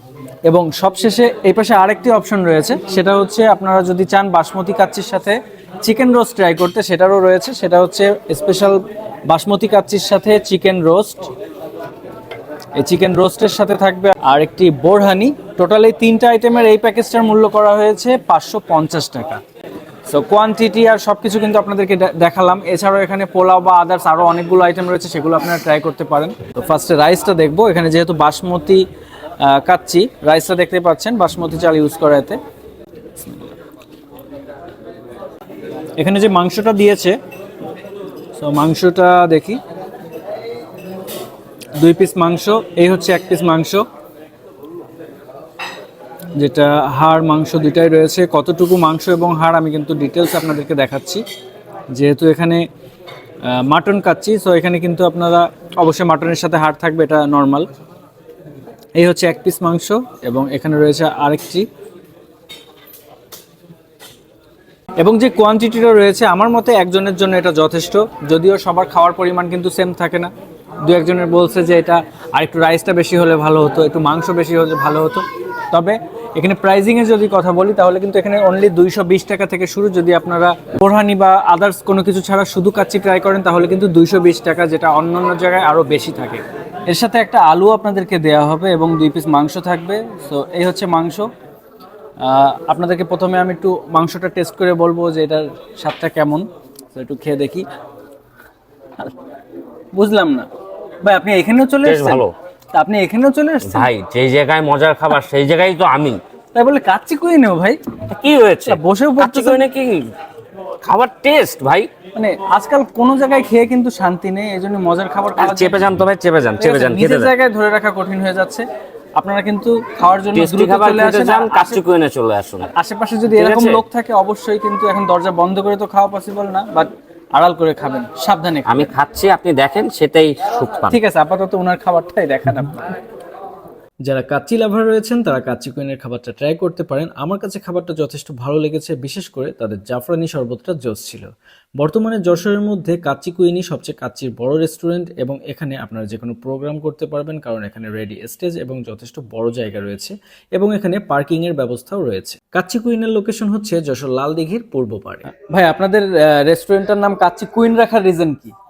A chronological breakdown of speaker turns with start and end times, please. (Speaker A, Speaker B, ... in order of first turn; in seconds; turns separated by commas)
Speaker A: 0.5-11.3, Speaker A: 12.8-19.4, Speaker A: 20.1-28.8, Speaker A: 29.4-32.4, Speaker A: 33.2-33.5, Speaker A: 36.0-37.2, Speaker A: 38.4-39.6, Speaker A: 41.8-43.8, Speaker A: 46.4-51.2, Speaker A: 51.9-52.6, Speaker A: 53.4-57.7, Speaker A: 59.0-61.7, Speaker A: 65.0-70.3, Speaker A: 70.8-91.3, Speaker A: 92.2-97.7, Speaker A: 99.9-100.5, Speaker A: 101.0-103.9, Speaker B: 101.8-102.3, Speaker B: 103.6-106.2, Speaker A: 106.5-107.8, Speaker B: 108.1-110.1, Speaker A: 108.7-109.6, Speaker B: 110.8-111.9, Speaker A: 112.1-115.8, Speaker B: 115.4-117.3, Speaker A: 116.6-118.6, Speaker A: 119.2-121.8, Speaker B: 120.3-122.7, Speaker A: 122.7-128.9, Speaker B: 123.3-123.8, Speaker B: 128.7-131.0, Speaker A: 130.9-132.8, Speaker A: 134.0-158.5